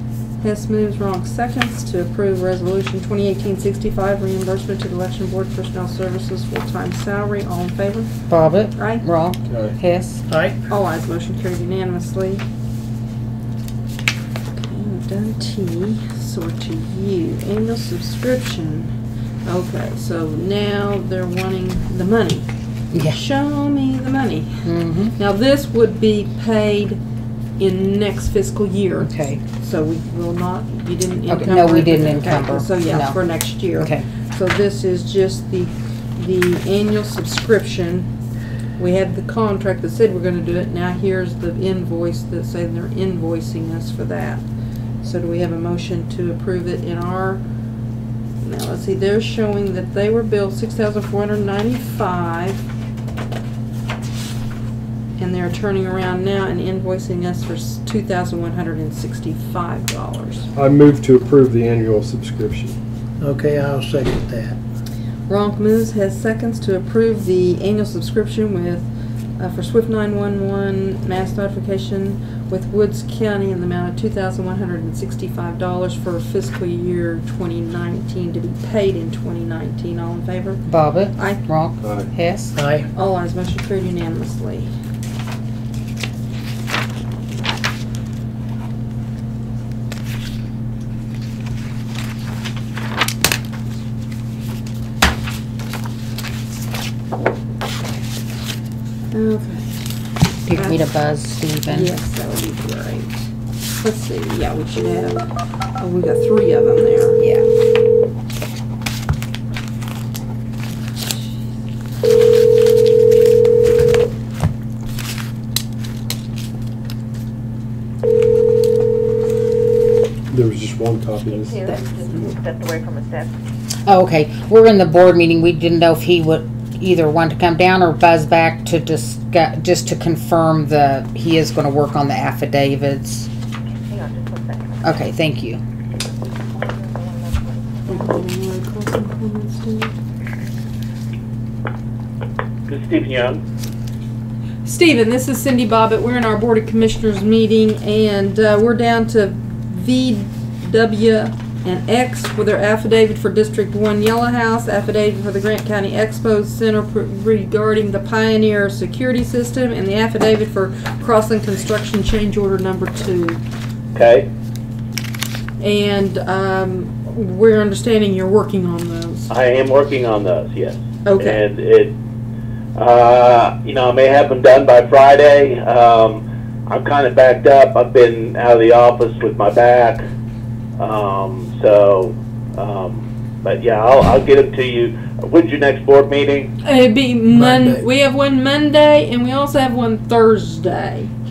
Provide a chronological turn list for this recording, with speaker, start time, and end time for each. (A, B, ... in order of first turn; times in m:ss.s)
0:00.4-0:08.1 A
0:08.3-0:10.2 B
0:08.7-0:09.0 A
0:09.5-0:09.8 C
0:10.3-0:10.6 D
0:10.7-0:12.4 A
0:14.6-0:18.9 A
0:19.4-0:22.5 A
0:23.0-0:27.0 A
0:24.7-0:25.1 B
0:27.6-0:38.1 A
0:29.1-0:29.4 B
0:31.3-0:33.2 B
0:33.8-0:34.0 B
0:38.8-0:44.4 A
0:45.0-0:47.4 A
0:48.4-0:52.6 A
0:55.2-1:00.5 A
1:00.6-1:02.8 C
1:03.2-1:04.6 D
1:05.3-1:08.9 A
1:09.4-1:20.6 A
1:21.2-1:21.4 A
1:21.5-1:22.5 B
1:21.8-1:22.1 C
1:22.5-1:22.9 D
1:23.0-1:24.7 A
1:39.1-1:39.8 A
1:40.5-1:41.9 B
1:40.5-1:40.9 A
1:41.7-1:43.3 A
1:43.8-1:45.3 A
1:45.8-1:47.2 A
2:00.3-2:01.6 C
2:01.2-2:03.3 E
2:01.7-2:02.3 A
2:03.9-2:13.3 B
2:13.8-2:15.1 E
2:14.8-2:15.6 B
2:16.4-2:18.2 E
2:17.9-2:19.9 A
2:22.7-2:23.4 F
2:24.6-2:43.4 A
2:43.9-2:44.3 F
2:45.6-2:49.3 A
2:49.3-2:51.9 F
2:51.0-2:51.4 A
2:52.8-3:00.0 F
3:00.8-3:06.5 F
3:06.6-3:11.1 A
3:07.3-3:07.8 D